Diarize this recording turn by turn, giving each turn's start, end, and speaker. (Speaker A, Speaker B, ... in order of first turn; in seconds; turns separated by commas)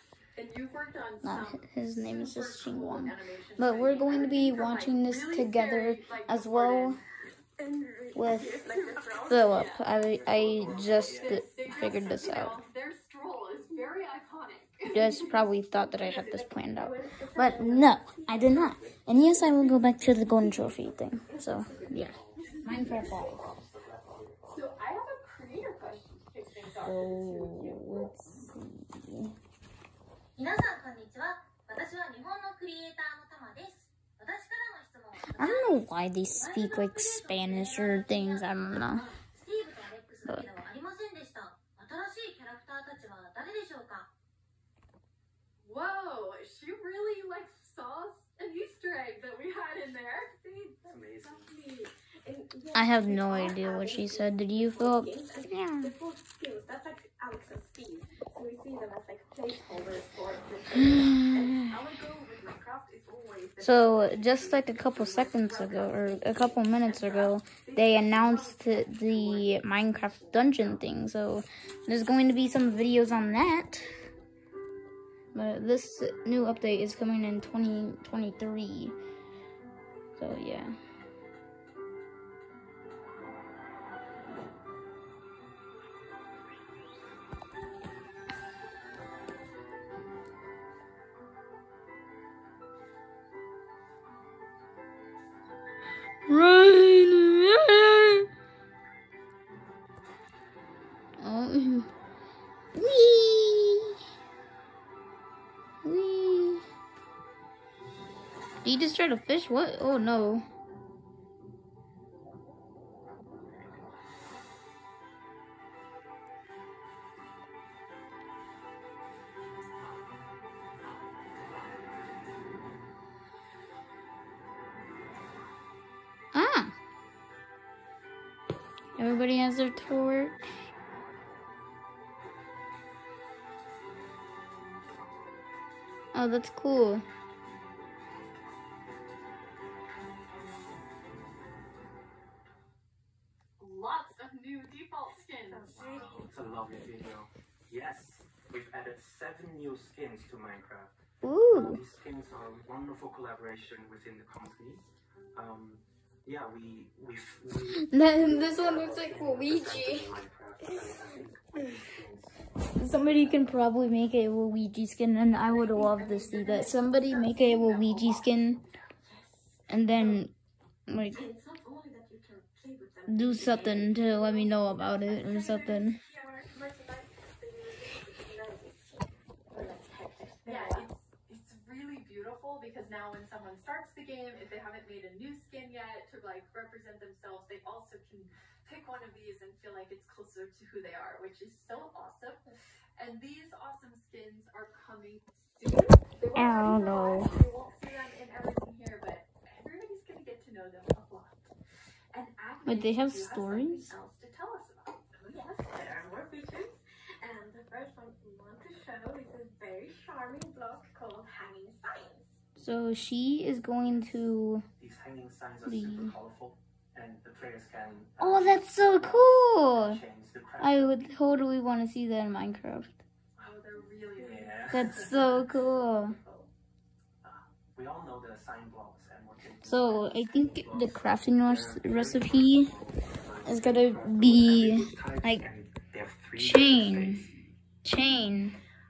Speaker A: 0.4-7.0, Speaker B: 1.2-7.0, Speaker C: 7.6-9.7, Speaker B: 8.1-8.6, Speaker A: 8.6-9.9, Speaker B: 9.3-12.6, Speaker D: 10.0-11.7, Speaker A: 10.7-15.3, Speaker C: 11.7-12.1, Speaker B: 14.9-23.4, Speaker C: 15.1-22.1, Speaker D: 21.7-24.4, Speaker A: 22.5-22.7, Speaker A: 24.4-28.5, Speaker B: 26.8-29.3, Speaker E: 30.4-44.1, Speaker B: 35.2-39.1, Speaker A: 45.6-50.3, Speaker C: 50.4-70.9, Speaker D: 50.8-51.5, Speaker B: 52.7-55.9, Speaker B: 61.0-61.5, Speaker B: 63.6-73.9, Speaker A: 66.8-67.3, Speaker B: 75.3-78.9, Speaker B: 80.2-80.7, Speaker B: 96.3-98.2, Speaker B: 101.2-101.9, Speaker B: 102.7-103.9, Speaker B: 105.8-106.6, Speaker B: 108.6-110.4, Speaker B: 126.3-126.7, Speaker B: 129.0-130.5, Speaker B: 136.1-137.1, Speaker A: 143.6-145.8, Speaker C: 145.2-146.3, Speaker D: 145.7-151.0, Speaker B: 151.2-151.8, Speaker D: 151.5-154.8, Speaker D: 155.3-163.6, Speaker B: 157.8-160.2, Speaker B: 162.8-168.6, Speaker C: 165.5-168.0, Speaker D: 167.6-168.9, Speaker C: 169.0-170.2, Speaker B: 169.7-170.3, Speaker B: 170.9-171.2, Speaker C: 171.1-180.9, Speaker B: 173.1-176.0, Speaker A: 180.4-201.5, Speaker B: 196.3-197.3, Speaker C: 197.2-197.6, Speaker A: 202.1-205.8, Speaker B: 202.7-203.9, Speaker C: 205.3-212.4, Speaker B: 212.6-214.7, Speaker D: 214.8-221.0, Speaker B: 215.7-216.1, Speaker B: 218.2-220.0, Speaker B: 220.6-223.0, Speaker D: 223.4-223.6, Speaker A: 223.4-225.1, Speaker D: 224.2-225.2, Speaker B: 224.7-226.2, Speaker C: 225.3-226.5, Speaker D: 227.2-237.3, Speaker B: 229.6-232.7, Speaker B: 233.4-235.5, Speaker B: 236.4-237.3, Speaker B: 237.8-238.6